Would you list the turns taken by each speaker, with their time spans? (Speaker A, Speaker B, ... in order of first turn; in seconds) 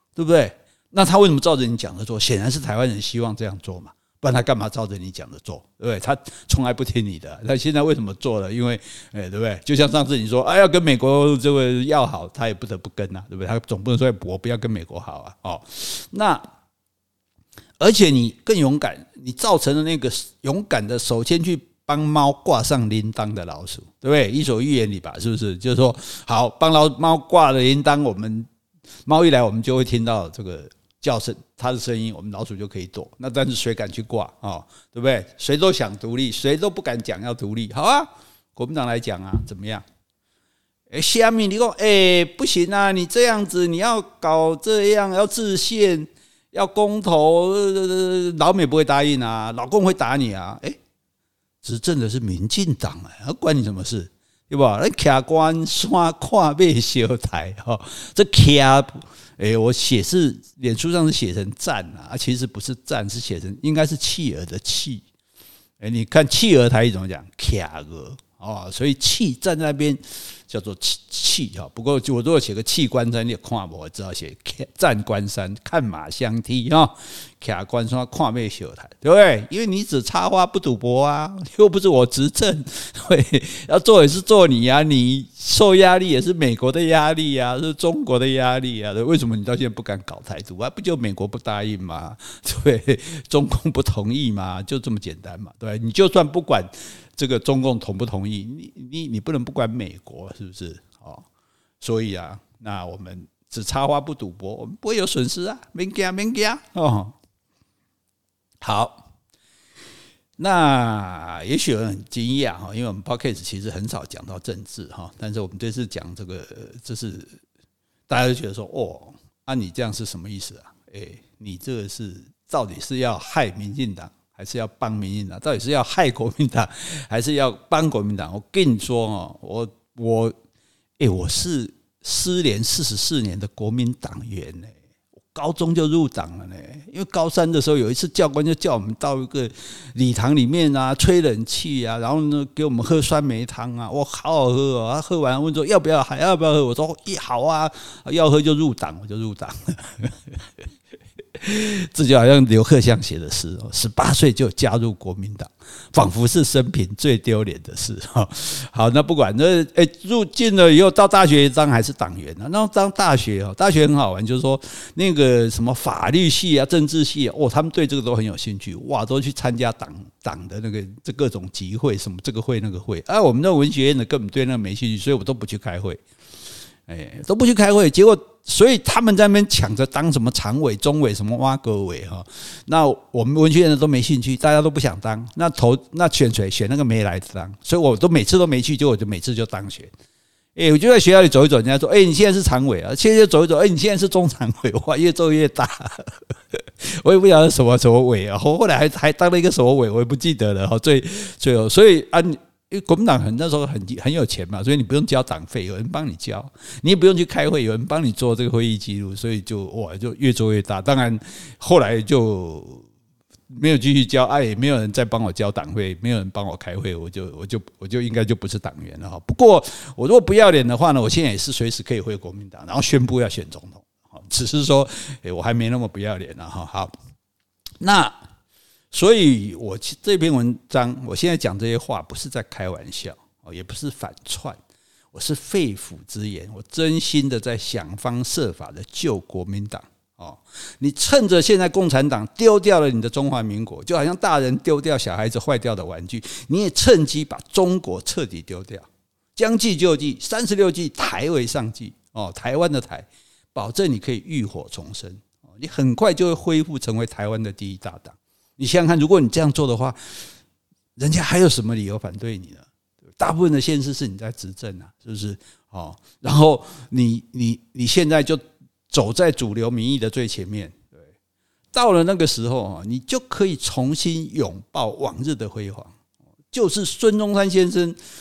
Speaker A: 0.1-16.4, 17.8-28.5, 29.1-39.8, 40.9-50.8, 51.6-65.0, 65.8-101.2, 101.8-107.1, 108.6-109.0, 110.4-117.4, 118.1-130.3, 131.0-134.7, 135.3-150.5, 151.4-176.0, 176.9-189.9, 190.5-212.8, 213.5-226.9, 227.8-228.2, 228.9-234.6, 235.1-260.2, 260.9-271.1, 271.7-275.9, 276.5-278.0